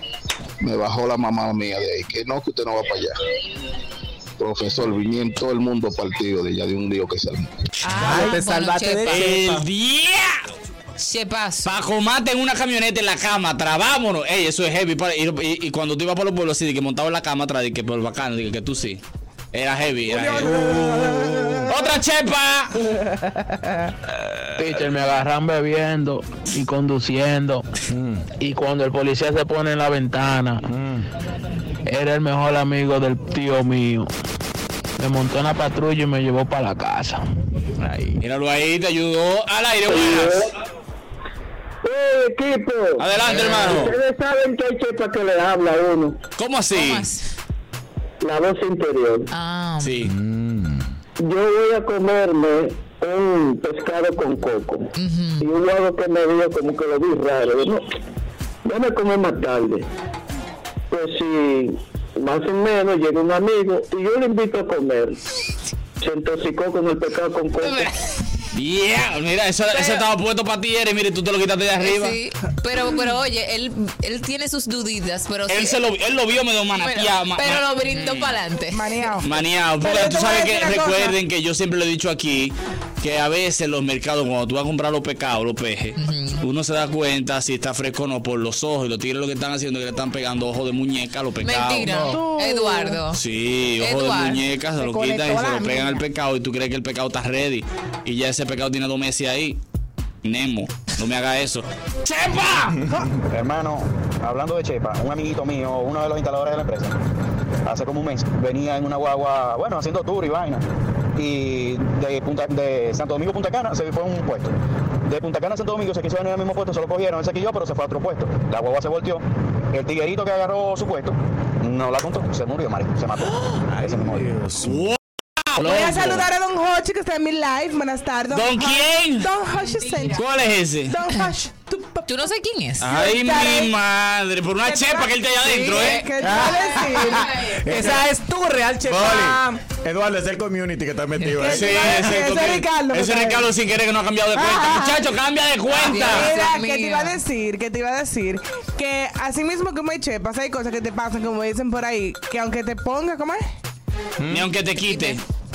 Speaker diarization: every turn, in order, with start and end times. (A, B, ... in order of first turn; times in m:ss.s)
0:00.6-0:03.2 A
0:04.4-0:07.5 A
0:07.8-0:09.4 B
0:08.0-0:09.7 C
0:09.0-0:10.4 D
0:11.0-0:11.7 B
0:11.6-0:19.0 D
0:19.5-0:20.8 D
0:20.1-0:20.9 E
0:20.3-0:21.7 F
0:21.7-0:22.8 D
0:24.6-0:27.6 G
0:27.9-0:28.2 F
0:28.4-0:30.6 G
0:30.7-0:31.1 F
0:31.8-0:34.1 G
0:35.0-0:37.2 G
0:37.8-0:40.5 D
0:39.9-0:40.4 H
0:41.8-0:46.2 H
0:43.0-0:44.0 D
0:46.4-0:47.1 D
0:46.7-0:47.3 B
0:48.2-0:49.3 H
0:49.3-0:50.1 B
0:49.8-0:50.1 D
0:50.1-0:50.8 F
0:51.2-0:54.5 H
0:55.0-0:55.5 B
0:55.4-0:57.8 H
0:58.7-0:59.7 H
1:00.9-1:01.6 H
1:02.2-1:05.1 H
1:06.0-1:07.8 H
1:07.6-1:07.9 B
1:08.5-1:12.2 D
1:09.7-1:10.0 B
1:11.8-1:15.8 B
1:15.5-1:18.4 D
1:16.8-1:18.9 B
1:18.7-1:19.3 E
1:19.2-1:32.2 D
1:19.8-1:21.1 E
1:26.0-1:26.4 B
1:31.4-1:33.2 B
1:32.0-1:33.0 E
1:33.1-1:39.6 D
1:33.8-1:34.4 B
1:34.8-1:35.9 E
1:40.2-1:42.8 D
1:43.3-1:47.0 I
1:47.6-1:50.6 I
1:51.2-1:54.5 I
1:55.0-2:04.3 I
2:03.7-2:04.9 F
2:04.6-2:05.0 D
2:05.5-2:06.3 D
2:05.6-2:10.2 E
2:08.3-2:09.3 D
2:10.2-2:11.0 D
2:10.9-2:12.1 E
2:12.1-2:13.0 B
2:12.8-2:16.1 D
2:12.9-2:13.7 E
2:14.6-2:17.3 E
2:15.8-2:17.3 B
2:16.2-2:18.1 F
2:17.6-2:19.6 C
2:18.8-2:22.3 F
2:21.2-2:21.4 B
2:21.4-2:23.4 E
2:21.4-2:26.3 D
2:24.4-2:24.9 E
2:25.8-2:27.2 B
2:26.0-2:33.4 E
2:34.2-2:34.5 F
2:34.3-2:35.2 D
2:34.8-2:35.2 B